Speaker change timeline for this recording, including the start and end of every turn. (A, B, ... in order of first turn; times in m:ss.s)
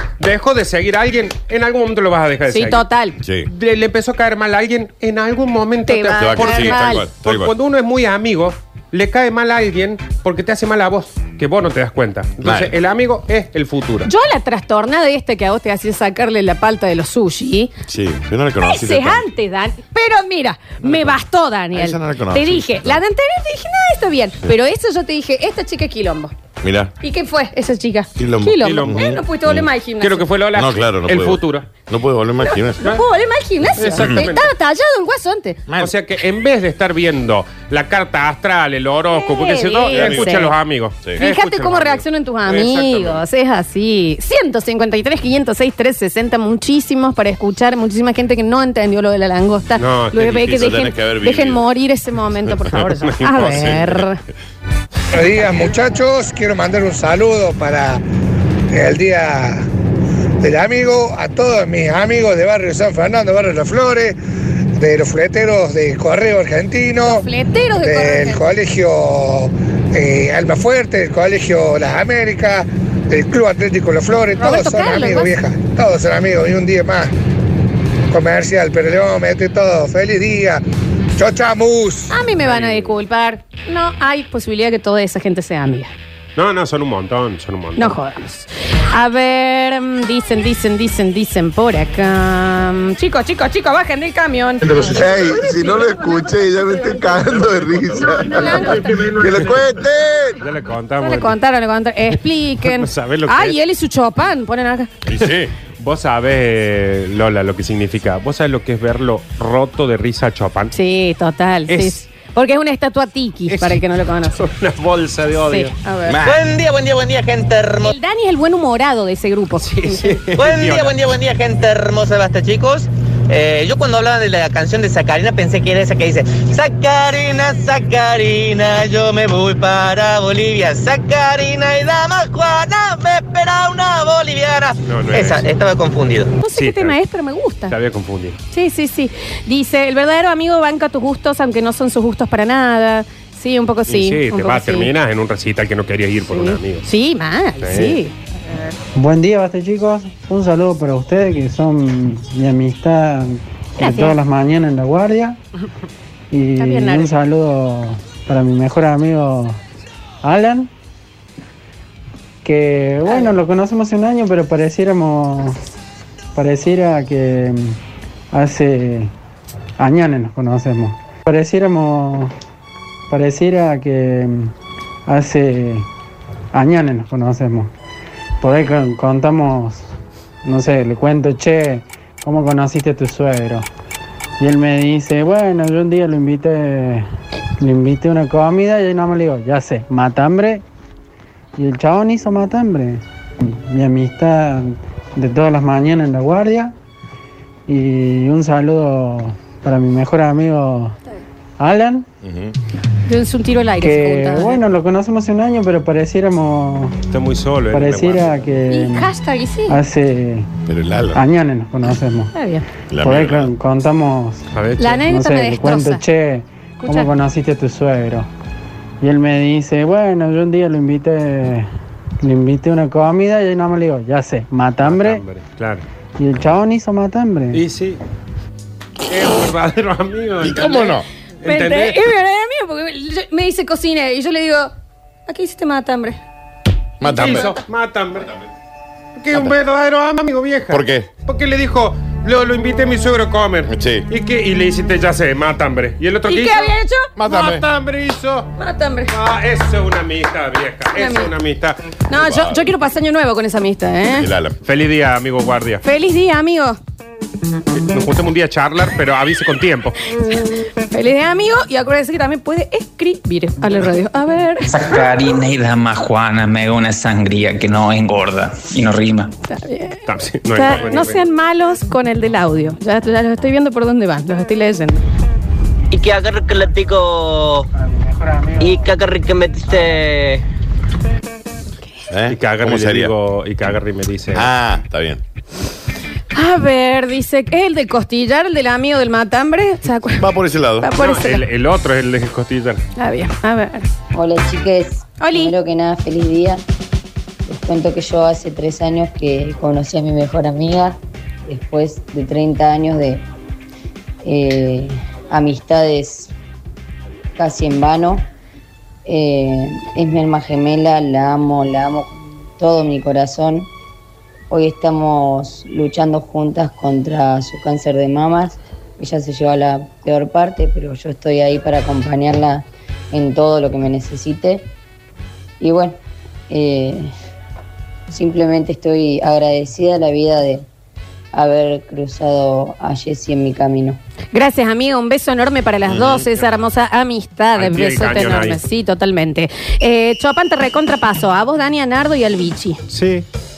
0:00.2-0:02.8 A
0:02.5-0:03.2 B
0:03.2-0:03.5 C
0:03.4-0:14.1 A
0:05.8-0:07.0 B
0:06.2-0:07.5 C
0:12.4-0:12.7 C
0:14.0-0:17.7 B
0:17.9-0:19.2 C
0:18.6-0:26.3 B
0:20.8-0:21.2 C
0:21.7-0:23.0 C
0:26.6-0:26.9 C
0:27.0-0:30.2 B
0:28.2-0:29.7 C
0:28.6-0:29.1 A
0:30.0-0:31.7 A
0:30.5-0:32.8 C
0:32.4-0:35.6 B
0:33.8-0:34.5 A
0:33.9-0:34.2 C
0:35.7-0:35.9 C
0:35.8-0:43.2 A
0:39.1-0:40.5 B
0:39.9-0:40.3 C
0:41.2-0:54.2 B
0:49.8-0:50.8 A
0:50.5-0:51.6 C
0:53.1-0:53.7 A
0:53.2-0:54.0 C
0:55.1-0:58.0 D
0:58.7-0:59.6 D
1:00.4-1:04.2 D
1:04.8-1:07.3 D
1:07.0-1:08.4 B
1:07.8-1:17.1 D
1:14.4-1:15.3 B
1:18.1-1:20.6 D
1:21.2-1:22.1 D
1:22.1-1:25.9 B
1:22.4-1:22.9 A
1:26.4-1:28.0 A
1:27.8-1:34.8 B
1:34.6-1:40.3 E
1:38.2-1:38.9 B
1:38.8-1:39.6 A
1:40.4-1:41.4 A
1:41.0-1:44.9 B
1:42.6-1:43.6 A
1:45.0-1:45.5 C
1:45.8-1:50.7 A
1:50.7-1:54.4 B
1:51.7-1:52.0 A
1:53.5-1:55.7 A
1:55.4-1:56.2 B
1:56.1-1:56.4 C
1:56.2-1:57.9 F
1:57.8-2:00.2 B
1:59.6-2:00.9 A
2:00.4-2:16.3 F
2:14.8-2:15.4 A
2:16.4-2:17.7 B
2:16.6-2:17.0 A
2:17.7-2:18.4 A
2:18.5-2:24.9 B
2:23.9-2:26.9 A
2:26.3-2:28.1 B
2:27.6-2:28.0 A
2:29.0-2:35.4 G
2:33.8-2:34.1 B
2:36.3-2:39.6 G
2:36.6-2:37.1 B
2:40.2-2:40.7 G
2:42.4-2:45.6 G
2:46.3-2:47.8 G
2:48.3-2:49.1 G
2:49.8-2:52.3 G
2:53.1-2:54.5 G
2:55.1-2:55.9 G
2:56.5-2:57.7 G
2:58.4-2:59.8 G
3:00.4-3:03.6 G
3:04.4-3:07.1 G
3:07.6-3:10.6 G
3:11.6-3:16.7 G
3:17.7-3:21.0 G
3:21.6-3:22.0 G
3:22.2-3:22.5 C
3:23.0-3:24.6 B
3:23.8-3:27.0 G
3:27.1-3:28.4 A
3:27.7-3:29.1 G
3:28.7-3:29.8 B
3:29.7-3:30.5 G
3:30.7-3:31.2 C
3:31.1-3:32.3 G
3:32.3-3:32.6 B
3:32.9-3:33.5 C
3:33.0-3:34.4 G
3:34.5-3:35.0 A
3:34.8-3:36.0 B
3:35.0-3:38.3 G
3:36.8-3:37.1 B
3:39.0-3:41.7 G
3:42.2-3:45.2 G
3:44.8-3:45.8 A
3:46.2-3:47.6 G
3:47.5-3:48.0 A
3:49.1-3:52.0 A
3:50.4-3:51.1 C
3:51.4-3:54.7 B
3:55.3-3:56.2 B
3:57.0-3:57.5 C
3:57.1-3:57.6 B
3:57.1-3:58.3 A
3:59.2-4:08.5 A
4:00.7-4:01.1 C
4:03.6-4:04.0 C
4:06.3-4:07.1 B
4:07.2-4:07.6 C
4:08.6-4:09.1 B
4:09.1-4:11.8 A
4:10.9-4:11.3 B
4:12.1-4:14.3 B
4:12.1-4:12.7 C
4:14.1-4:14.6 C
4:14.6-4:15.8 A
4:15.8-4:16.8 B
4:17.7-4:20.0 A
4:20.3-4:25.0 B
4:24.7-4:29.3 H
4:29.5-4:35.0 B
4:30.1-4:31.2 A
4:35.9-4:37.6 F
4:37.8-4:38.9 G
4:38.6-4:40.4 F
4:42.1-4:43.1 C
4:42.3-4:44.5 A
4:44.3-4:45.2 C
4:46.3-4:50.3 B
4:50.1-4:50.9 C
4:50.8-4:51.4 B
4:51.0-4:52.8 A
4:53.0-4:53.9 B
4:54.1-4:56.6 I
4:55.2-4:55.5 B
4:57.4-5:03.2 I
5:04.2-5:06.3 I
5:07.4-5:08.2 I
5:09.0-5:13.7 I
5:14.5-5:24.7 I
5:25.6-5:27.1 I
5:28.1-5:30.7 I
5:31.3-5:34.0 I
5:34.3-5:42.8 B
5:35.8-5:36.3 C
5:37.5-5:38.6 A
5:42.9-5:43.2 A